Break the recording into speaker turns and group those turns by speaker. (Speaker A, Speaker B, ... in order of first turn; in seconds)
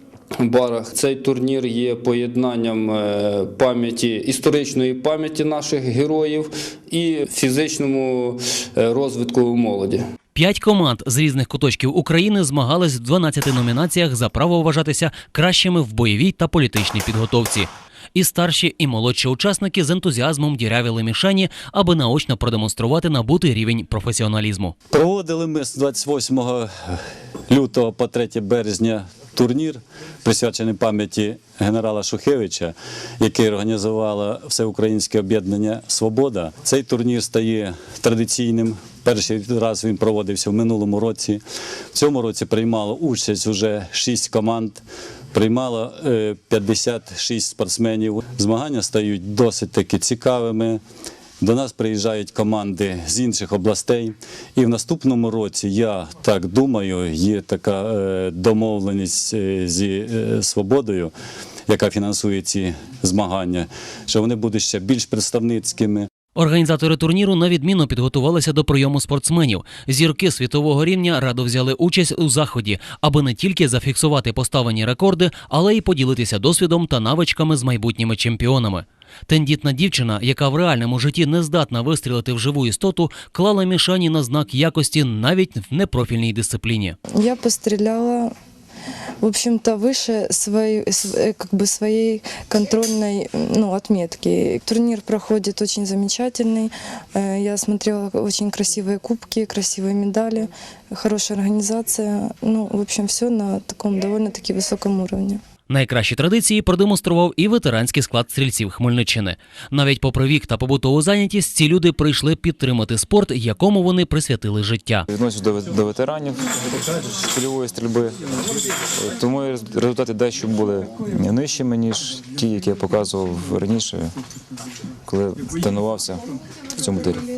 Speaker A: 0.4-10.0
Speaker B: 10.3-24.8, 66.4-87.0, 105.7-115.0
Speaker C: 24.9-27.0, 27.5-41.4, 41.9-50.8, 51.4-61.1, 61.7-66.1
Speaker D: 87.2-88.3, 89.2-105.4
Speaker E: 115.1-118.2, 118.9-124.1, 125.1-126.2, 126.8-127.3